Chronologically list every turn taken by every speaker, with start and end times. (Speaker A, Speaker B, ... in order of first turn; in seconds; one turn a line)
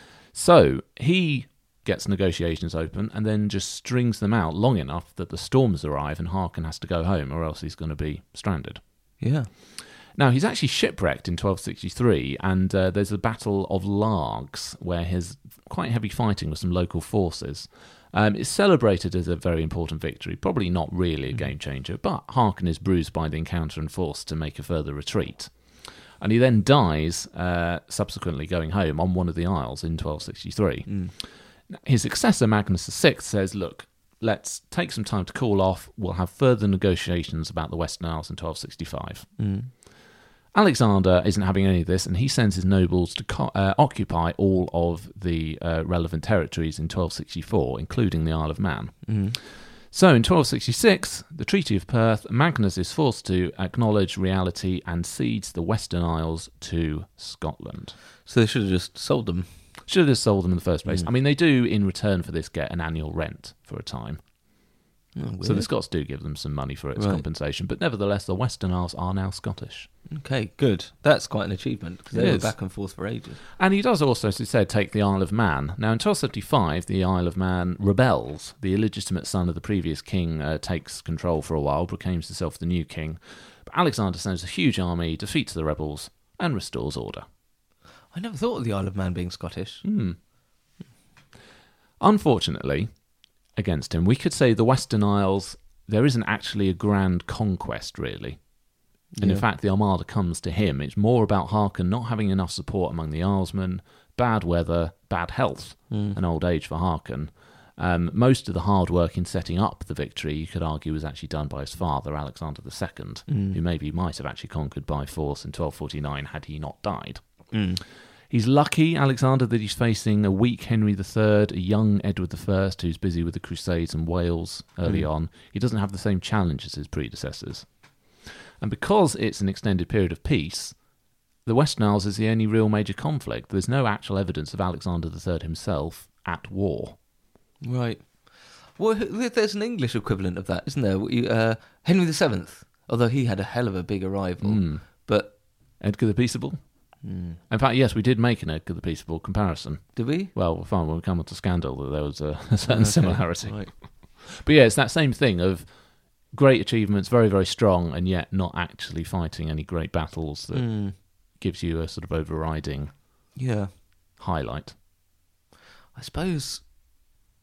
Speaker A: 0.3-8.8
Speaker B: 9.2-9.5
Speaker A: 10.2-25.5
Speaker A: 26.2-31.0
Speaker B: 30.9-31.1
Speaker A: 31.7-39.3
Speaker B: 39.4-39.7
Speaker A: 40.5-49.0
Speaker B: 49.0-49.4
Speaker A: 49.9-57.9
Speaker B: 58.2-59.5
Speaker A: 59.9-64.2
Speaker B: 65.2-65.7
Speaker A: 65.4-69.9
Speaker B: 67.0-67.2
Speaker B: 70.1-73.4
Speaker A: 72.1-72.5
Speaker A: 73.5-87.2
Speaker B: 88.1-89.8
Speaker A: 89.8-90.2
Speaker A: 92.0-92.9
Speaker A: 93.5-98.4
Speaker B: 99.1-99.4
Speaker A: 99.2-117.2
Speaker B: 105.9-106.2
Speaker B: 113.3-113.6
Speaker B: 117.5-117.8
Speaker A: 118.3-127.7
Speaker A: 128.6-130.7
Speaker A: 131.4-136.9
Speaker B: 137.6-138.2
Speaker B: 138.8-145.3
Speaker A: 144.4-144.8
Speaker A: 145.8-146.6
Speaker B: 147.0-147.4
Speaker A: 147.5-155.6
Speaker B: 149.9-150.3
Speaker B: 152.7-153.7
Speaker A: 156.3-162.9
Speaker B: 160.5-160.9
Speaker B: 163.3-163.7
Speaker A: 164.2-164.7
Speaker B: 165.9-166.6